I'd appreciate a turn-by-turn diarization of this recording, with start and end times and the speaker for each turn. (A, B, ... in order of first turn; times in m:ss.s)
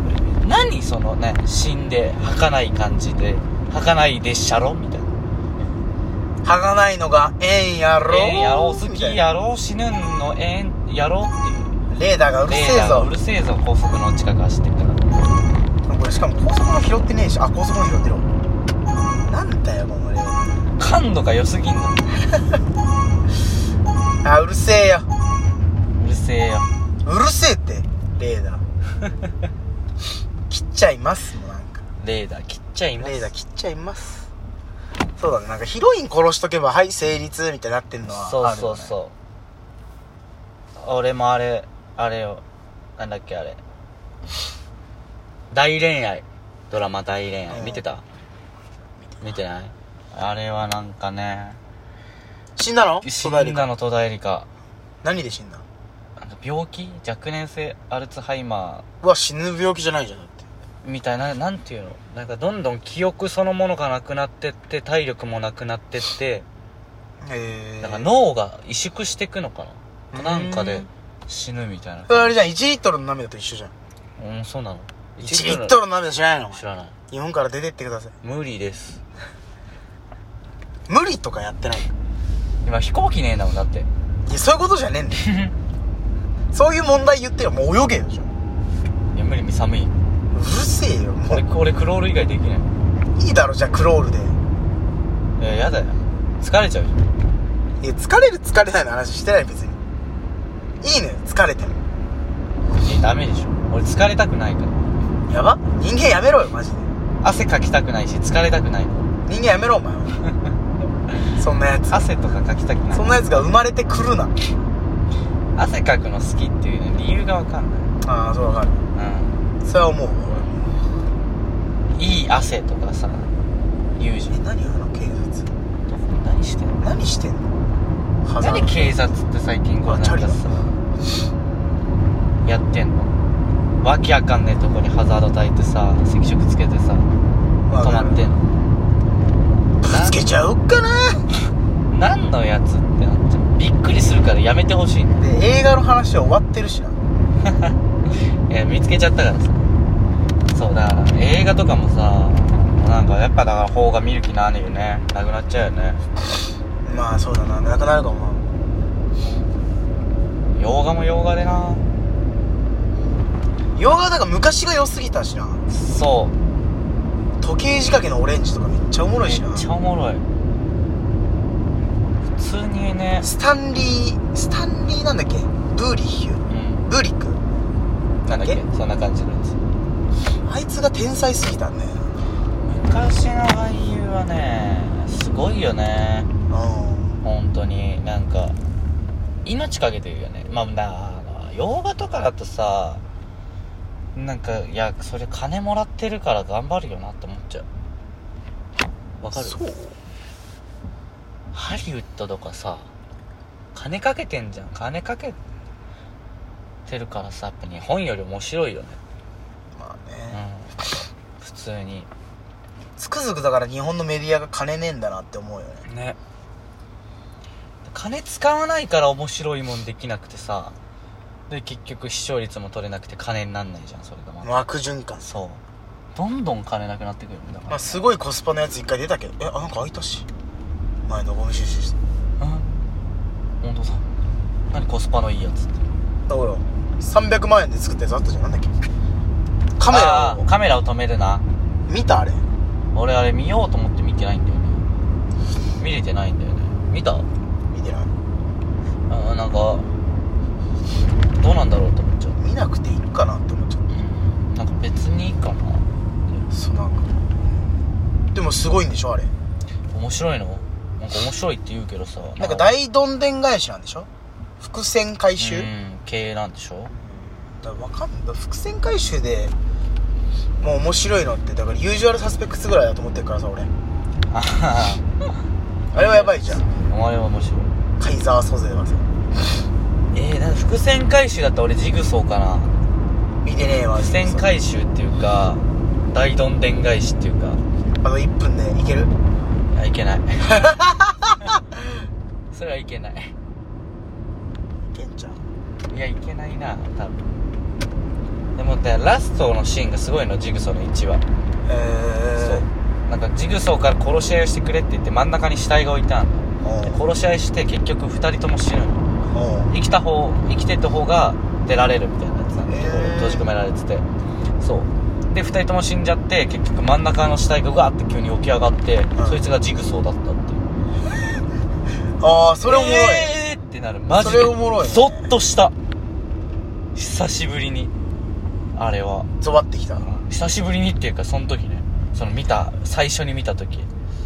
0:00.4-0:05.1 A
0:06.4-0:09.2 B
0:08.1-0:11.8 A
0:11.9-0:13.1 B
0:12.5-0:15.0 A
0:15.9-0:18.2 B
0:19.3-0:20.7 B
0:20.8-0:22.1 A
0:24.2-0:25.1 B
0:25.9-0:26.7 A
0:27.0-0:28.6 B
0:30.5-0:31.8 B
0:32.0-0:33.3 A
0:33.0-0:34.3 B
0:35.2-0:39.0 B
0:38.1-0:39.1 A
0:40.8-0:42.4 A
0:43.0-0:43.6 A
0:45.5-0:48.0 A
0:47.5-0:47.8 B
0:49.2-0:51.6 A
0:52.6-0:53.6 B
0:53.0-0:54.5 A
0:55.0-0:55.6 B
0:56.2-0:58.8 A
0:59.0-1:00.4 B
1:00.8-1:06.4 A
1:07.2-1:08.1 B
1:07.8-1:12.3 A
1:10.1-1:10.9 B
1:12.1-1:13.7 B
1:14.2-1:15.8 A
1:15.2-1:18.1 B
1:16.5-1:16.9 A
1:18.2-1:19.0 A
1:20.9-1:21.9 B
1:22.6-1:23.9 A
1:24.2-1:25.2 B
1:25.2-1:25.5 A
1:26.5-1:28.3 B
1:29.1-1:29.9 A
1:30.3-1:31.4 B
1:31.2-1:32.7 A
1:33.2-1:34.4 B
1:35.4-1:37.0 A
1:37.8-1:39.8 B
1:40.8-1:41.8 B
1:42.8-1:44.9 A
1:45.3-1:46.9 B
1:47.2-1:49.1 A
1:49.2-1:50.2 B
1:51.3-1:52.1 B
1:51.9-1:53.5 A
1:52.9-1:54.3 B
1:55.5-1:57.9 A
1:58.0-1:58.8 B
1:58.9-1:59.4 A
1:59.6-2:00.6 B
2:01.9-2:03.3 A
2:04.0-2:04.4 A
2:04.3-2:05.5 B
2:05.9-2:06.8 A
2:06.8-2:07.5 B
2:08.2-2:09.0 B
2:08.4-2:10.7 A
2:09.8-2:10.7 B
2:12.4-2:13.1 A
2:13.8-2:17.1 A
2:17.6-2:18.2 B
2:17.8-2:18.4 A
2:19.8-2:21.2 B
2:19.9-2:20.2 A
2:21.9-2:25.2 A
2:25.2-2:27.0 B
2:27.4-2:27.7 A
2:28.5-2:29.6 A
2:30.5-2:36.0 A
2:36.8-2:38.4 B
2:40.5-2:41.8 A
2:43.7-2:45.6 B
2:45.7-2:46.3 A
2:47.4-2:49.7 B
2:49.2-2:50.2 A
2:52.4-2:53.3 A
2:53.2-2:57.4 B
2:56.5-2:56.9 A
2:58.2-2:58.6 B
2:58.2-2:59.6 A
3:00.4-3:02.0 B
3:02.6-3:06.3 A
3:06.5-3:07.2 B
3:07.2-3:08.6 A
3:09.4-3:13.0 A
3:14.1-3:17.6 A
3:19.2-3:19.6 A
3:19.3-3:20.0 B
3:21.5-3:22.9 A
3:23.7-3:25.4 A
3:26.8-3:29.0 A
3:29.8-3:30.4 B
3:30.3-3:32.1 A
3:33.0-3:35.9 B
3:35.9-3:36.2 A
3:37.8-3:40.7 A
3:41.5-3:44.5 A
3:44.4-3:45.3 B
3:45.3-3:45.6 A
3:46.1-3:48.0 A
3:47.7-3:50.2 B
3:51.1-3:52.0 B
3:52.4-3:52.7 A
3:53.6-3:54.0 A
3:54.7-3:55.7 A
3:56.3-3:58.7 B
3:59.8-4:00.5 B
3:59.9-4:01.4 A
4:01.9-4:02.4 B
4:02.9-4:04.8 A
4:05.8-4:07.3 A
4:07.7-4:08.1 B
4:09.1-4:09.8 A
4:11.4-4:12.4 A
4:12.4-4:13.9 B
4:13.9-4:15.9 A
4:16.5-4:17.2 B
4:18.3-4:19.3 B
4:19.9-4:22.7 A
4:22.4-4:24.1 B
4:24.6-4:25.7 B
4:25.4-4:26.9 A
4:26.9-4:29.5 B
4:30.6-4:33.7 B
4:34.3-4:35.1 A
4:35.9-4:36.6 B
4:36.0-4:37.7 A
4:38.0-4:39.0 B
4:40.1-4:42.7 A
4:43.4-4:44.5 B
4:44.0-4:47.6 A
4:48.0-4:49.1 B
4:49.7-4:50.6 A
4:50.4-4:51.5 B
4:52.5-4:53.3 A
4:54.9-4:55.4 B
4:55.9-4:57.3 A
4:58.6-5:01.2 A
5:01.6-5:02.6 B
5:02.4-5:09.0 A
5:06.6-5:07.0 B
5:09.3-5:09.7 B
5:09.7-5:14.0 A
5:12.7-5:13.4 B
5:14.6-5:20.6 A
5:22.2-5:23.3 B
5:22.6-5:25.7 A
5:24.1-5:25.3 B
5:26.9-5:27.9 A
5:28.7-5:29.3 A
5:29.4-5:30.1 B
5:30.0-5:33.9 A